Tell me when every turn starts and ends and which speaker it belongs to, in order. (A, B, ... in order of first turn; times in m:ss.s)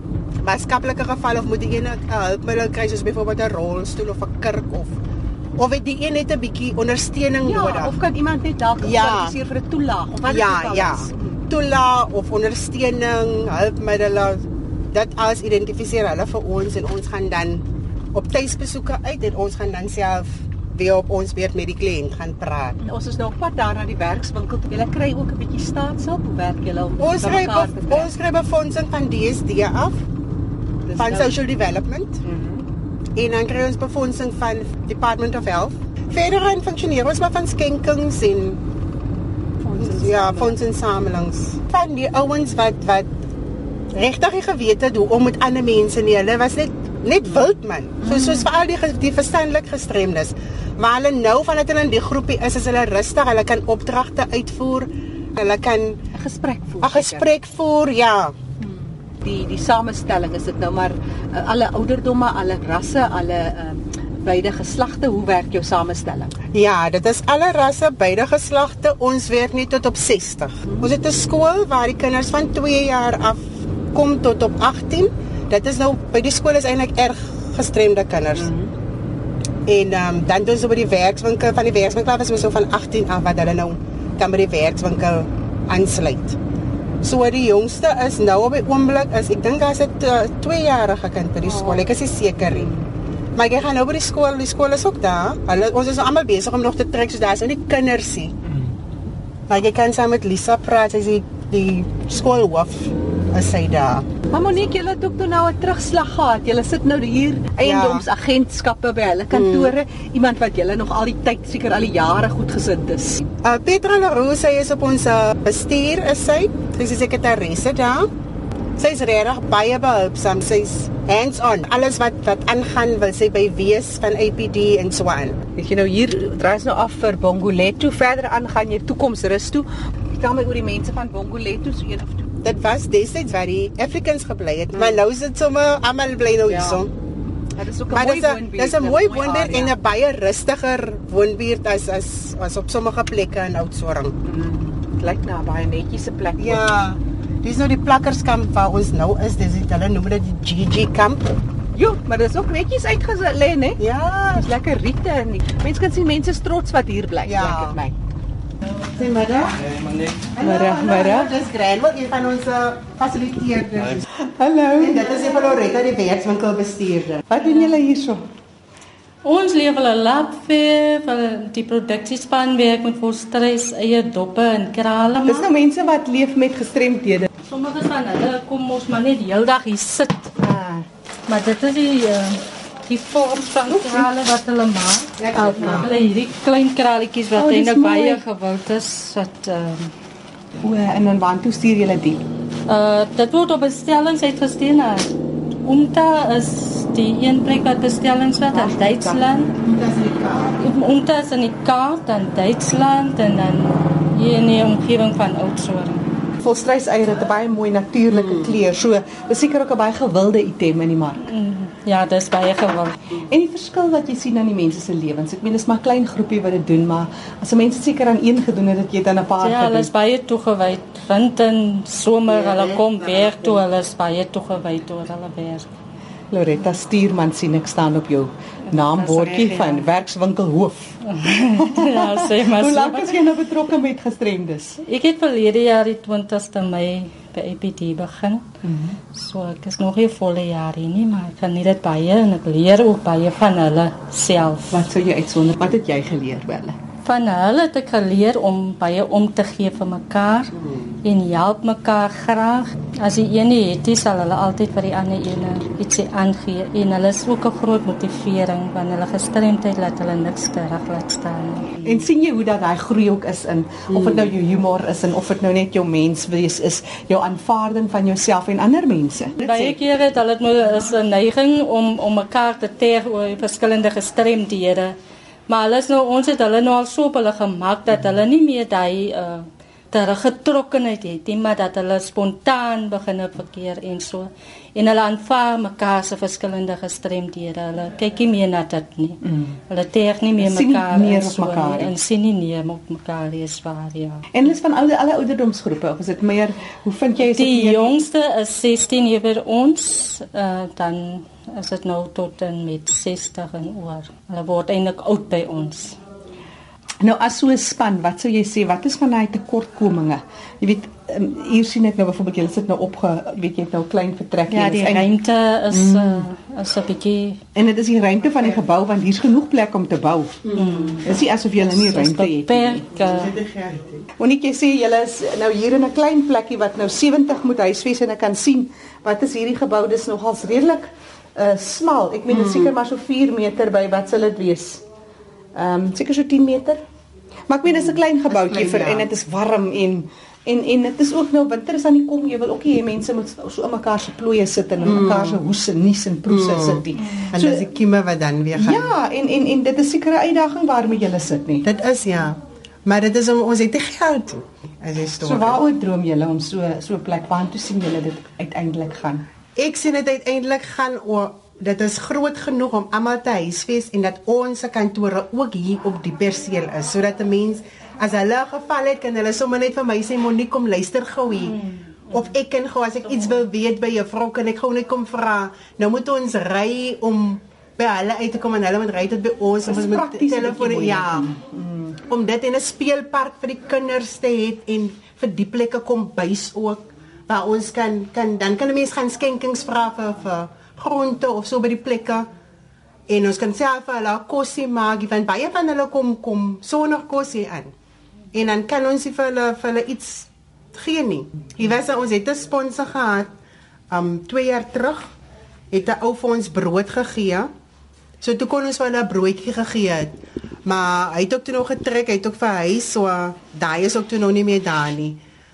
0:00.4-0:05.0 A
0:05.6-0:08.0 A
0:07.4-0:11.4 B
0:08.8-0:09.4 A
0:10.2-0:22.8 A
0:22.8-0:28.1 B
0:27.0-0:30.0 A
0:30.9-0:31.3 B
0:31.0-0:32.2 A
0:32.2-0:32.7 B
0:33.2-0:38.6 A
0:39.6-0:40.6 B
0:39.8-0:43.1 A
0:43.9-0:56.0 A
0:48.0-0:48.5 B
0:56.1-0:57.3 B
0:56.8-0:58.4 A
0:58.6-1:06.3 B
1:06.5-1:18.5 A
1:18.4-1:18.7 B
1:19.7-1:26.4 A
1:27.0-1:32.7 A
1:31.4-1:31.8 B
1:32.5-1:32.8 B
1:33.4-1:38.4 A
1:39.5-1:44.1 A
1:44.3-1:53.3 B
1:47.6-1:48.1 A
1:49.3-1:49.8 A
1:53.4-1:58.1 A
1:58.8-2:05.4 A
2:05.6-2:12.3 B
2:12.4-2:16.9 A
2:14.8-2:15.0 B
2:16.5-2:16.8 B
2:17.6-2:19.7 B
2:17.9-2:24.2 A
2:24.2-2:26.7 B
2:26.4-2:31.2 A
2:31.8-2:33.8 B
2:33.8-2:34.5 A
2:34.3-2:38.0 B
2:37.3-2:37.8 A
2:38.9-2:39.8 A
2:40.3-2:44.1 A
2:40.4-2:41.3 B
2:44.2-2:45.2 B
2:44.8-2:47.2 A
2:47.3-2:48.2 B
2:49.2-2:55.5 C
2:55.3-2:57.3 B
2:57.4-3:00.3 C
3:00.4-3:00.9 B
3:01.3-3:09.9 C
3:03.7-3:04.1 B
3:05.2-3:05.9 A
3:07.4-3:08.2 B
3:10.6-3:12.2 B
3:12.7-3:15.1 C
3:15.6-3:19.5 C
3:18.5-3:19.2 B
3:19.6-3:20.6 A
3:20.6-3:26.1 C
3:26.4-3:31.3 B
3:28.1-3:28.5 A
3:31.2-3:33.2 C
3:33.2-3:39.9 B
3:39.4-3:45.7 C
3:46.3-3:51.0 B
3:48.7-3:49.9 C
3:51.0-3:53.2 C
3:51.6-3:54.8 B
3:54.8-3:58.5 C
3:58.6-3:59.0 B
3:59.1-4:04.9 C
4:04.7-4:06.8 B
4:07.0-4:10.5 C
4:11.0-4:21.8 C
4:21.8-4:29.8 B
4:23.9-4:24.3 A
4:29.4-4:35.0 C
4:35.5-4:54.3 C
4:49.2-4:49.6 B
4:50.4-4:52.0 B
4:54.3-4:58.0 B
4:57.3-5:06.0 C
5:07.0-5:15.1 B
5:14.5-5:17.4 C
5:15.7-5:16.3 B
5:17.6-5:20.5 B
5:20.6-5:21.1 C
5:21.0-5:22.9 B
5:21.6-5:23.4 C
5:23.0-5:24.1 A
5:24.2-5:34.8 B
5:32.3-5:32.7 A
5:35.6-5:36.8 B
5:37.5-5:47.7 B
5:38.3-5:39.1 A
5:44.8-5:45.4 A
5:46.3-5:49.0 A
5:48.5-5:51.7 B
5:51.6-5:55.6 A
5:55.2-5:59.3 B
5:59.6-6:21.3 A
6:19.7-6:22.0 B
6:22.0-6:32.3 A
6:33.1-6:37.7 A
6:38.3-6:43.3 A
6:43.9-6:45.1 A
6:45.7-6:47.5 A
6:48.2-6:55.2 A